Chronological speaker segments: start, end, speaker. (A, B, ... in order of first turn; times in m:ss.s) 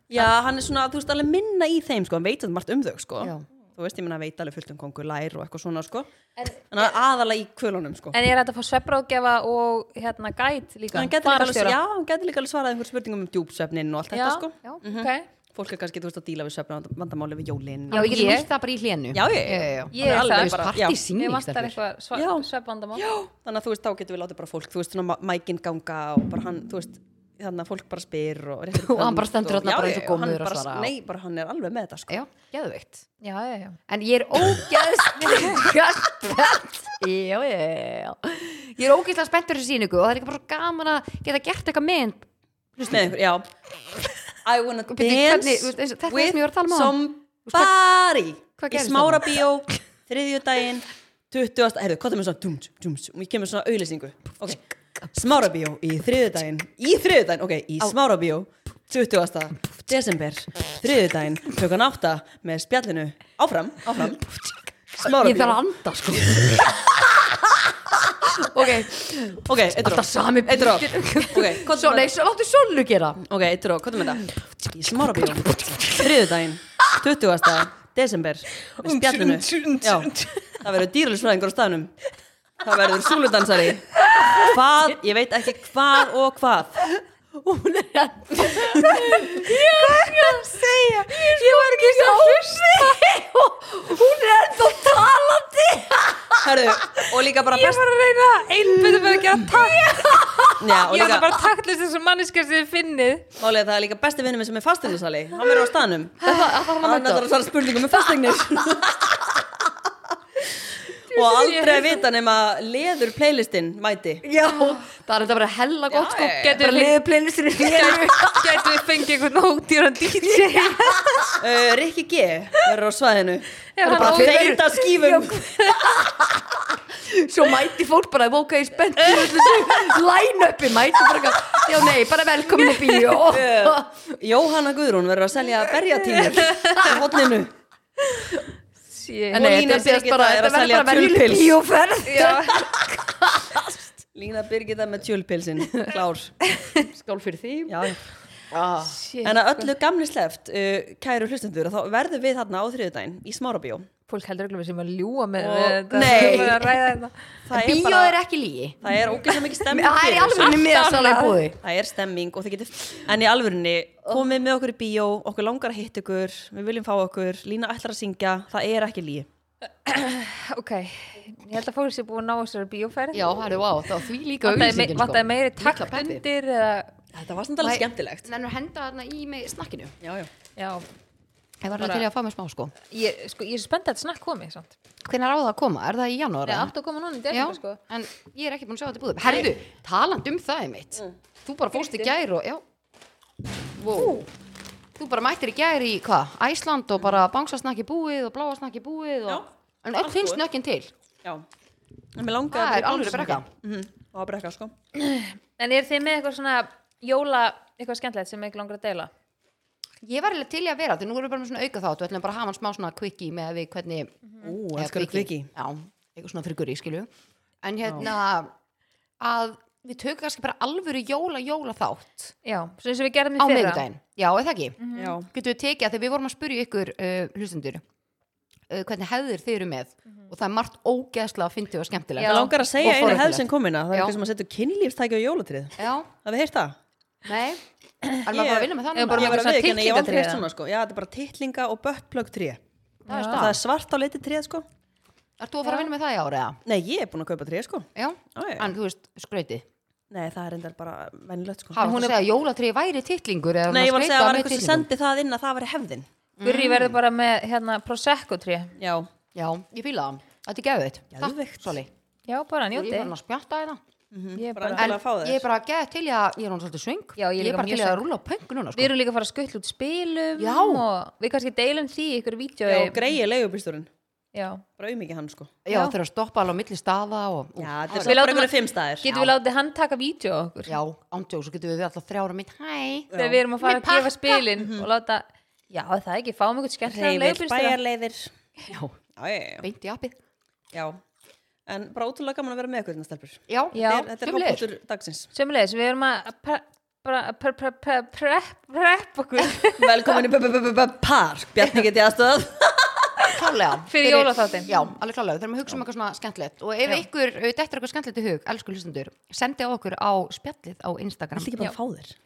0:00.1-0:06.1 A
0:03.2-0:03.4 B
0:06.4-0:06.9 C
0:06.7-0:08.2 A
0:08.1-0:11.8 C
0:10.9-0:18.4 A
0:14.1-0:15.3 C
0:17.9-0:18.5 C
0:17.9-0:21.8 B
0:19.1-0:21.0 A
0:19.9-0:23.0 C
0:22.1-0:32.2 A
0:28.7-0:30.9 B
0:32.1-0:33.0 B
0:33.2-0:33.8 C
0:33.9-0:43.1 B
0:42.8-0:43.5 A
0:44.4-0:54.6 A
0:44.9-0:47.7 B
0:48.6-0:49.4 B
0:55.1-1:04.3 A
1:04.3-1:13.2 B
1:04.9-1:05.6 A
1:09.4-1:12.1 A
1:13.2-1:21.9 A
1:15.1-1:16.3 B
1:18.8-1:20.6 B
1:19.4-1:20.3 C
1:22.6-1:26.8 A
1:24.0-1:25.0 B
1:26.8-1:37.1 B
1:28.5-1:29.0 A
1:28.7-1:33.0 C
1:36.4-1:37.9 A
1:37.4-1:43.2 C
1:38.6-1:40.8 B
1:40.6-1:41.3 A
1:43.4-1:49.4 A
1:46.2-1:47.3 B
1:47.8-1:48.4 B
1:51.1-1:54.2 A
1:51.1-1:52.0 C
1:54.2-1:59.0 B
1:55.9-1:56.8 A
1:56.3-1:57.0 C
1:57.6-2:01.3 C
2:00.2-2:01.3 B
2:01.4-2:05.5 A
2:03.8-2:04.6 C
2:03.8-2:14.1 B
2:09.0-2:09.7 A
2:12.6-2:13.2 C
2:13.2-2:17.5 A
2:16.2-2:17.1 B
2:16.3-2:17.0 C
2:18.2-2:19.5 C
2:19.3-2:24.0 B
2:19.3-2:21.6 A
2:22.0-2:22.7 C
2:24.1-2:26.3 A
2:26.6-2:27.9 B
2:27.7-2:28.0 A
2:28.5-2:29.0 B
2:28.9-2:29.7 C
2:29.2-2:33.9 A
2:34.1-2:37.2 C
2:35.4-2:36.7 A
2:35.9-2:36.7 B
2:37.4-2:38.2 A
2:37.5-2:39.0 B
2:38.8-2:49.3 A
2:38.9-2:39.4 C
2:39.6-2:41.6 B
2:40.4-2:41.4 C
2:49.8-2:53.4 C
2:53.1-2:56.2 B
2:54.4-2:56.9 C
2:57.1-2:58.3 A
2:57.6-2:59.9 B
3:00.0-3:00.3 A
3:00.6-3:00.9 C
3:01.6-3:02.7 B
3:01.7-3:02.0 C
3:02.9-3:04.8 C
3:05.0-3:06.7 B
3:06.4-3:07.8 C
3:07.3-3:12.6 B
3:11.7-3:12.1 C
3:13.8-3:14.3 B
3:13.9-3:14.2 A
3:15.0-3:20.9 B
3:20.0-3:20.4 A
3:22.1-3:24.7 A
3:22.5-3:23.5 B
3:24.9-3:29.1 C
3:30.0-3:34.2 B
3:34.4-3:35.5 A
3:34.7-3:37.1 B
3:37.6-3:38.5 B
3:39.2-3:42.3 B
3:42.4-3:43.8 C
3:43.4-3:47.8 B
3:44.8-3:45.2 C
3:44.9-3:45.3 A
3:48.7-3:54.2 B
3:52.2-3:52.5 C
3:52.2-3:56.7 A
3:55.8-3:56.1 B
3:57.2-3:57.6 B
3:58.2-3:59.4 B
3:58.2-4:02.6 A
3:58.9-4:00.4 C
4:03.1-4:03.4 C
4:03.1-4:03.6 B
4:03.1-4:04.6 A
4:05.4-4:06.6 B
4:06.6-4:08.7 A
4:07.9-4:09.6 B
4:10.1-4:11.8 A
4:11.7-4:14.9 B
4:11.8-4:12.2 C
4:13.7-4:16.1 A
4:16.4-4:17.0 B
4:16.4-4:18.7 C
4:18.8-4:19.1 A
4:19.3-4:21.9 B
4:21.1-4:21.8 A
4:22.3-4:23.1 C
4:22.7-4:23.8 B
4:24.1-4:25.4 A
4:24.4-4:24.9 C
4:24.8-4:28.9 B
4:27.2-4:28.0 C
4:28.7-4:33.0 C
4:30.4-4:30.8 B
4:32.6-4:33.9 A
4:34.3-4:34.6 C
4:34.8-4:35.7 A
4:35.6-4:38.2 B
4:37.6-4:39.1 A
4:38.0-4:40.8 C
4:39.1-4:39.3 B
4:40.6-4:44.4 B
4:43.1-4:43.4 A
4:43.1-4:47.8 C
4:44.6-4:44.9 A
4:46.8-4:48.3 A
4:48.7-4:48.9 B
4:49.2-4:49.6 A
4:49.6-4:50.2 B
4:50.7-4:51.0 A
4:51.7-4:55.3 A
4:53.5-4:54.6 B
4:53.7-4:54.2 C
4:55.3-5:00.2 C
4:59.6-5:03.4 A
5:03.3-5:11.5 B
5:03.8-5:04.7 C
5:11.3-5:12.2 A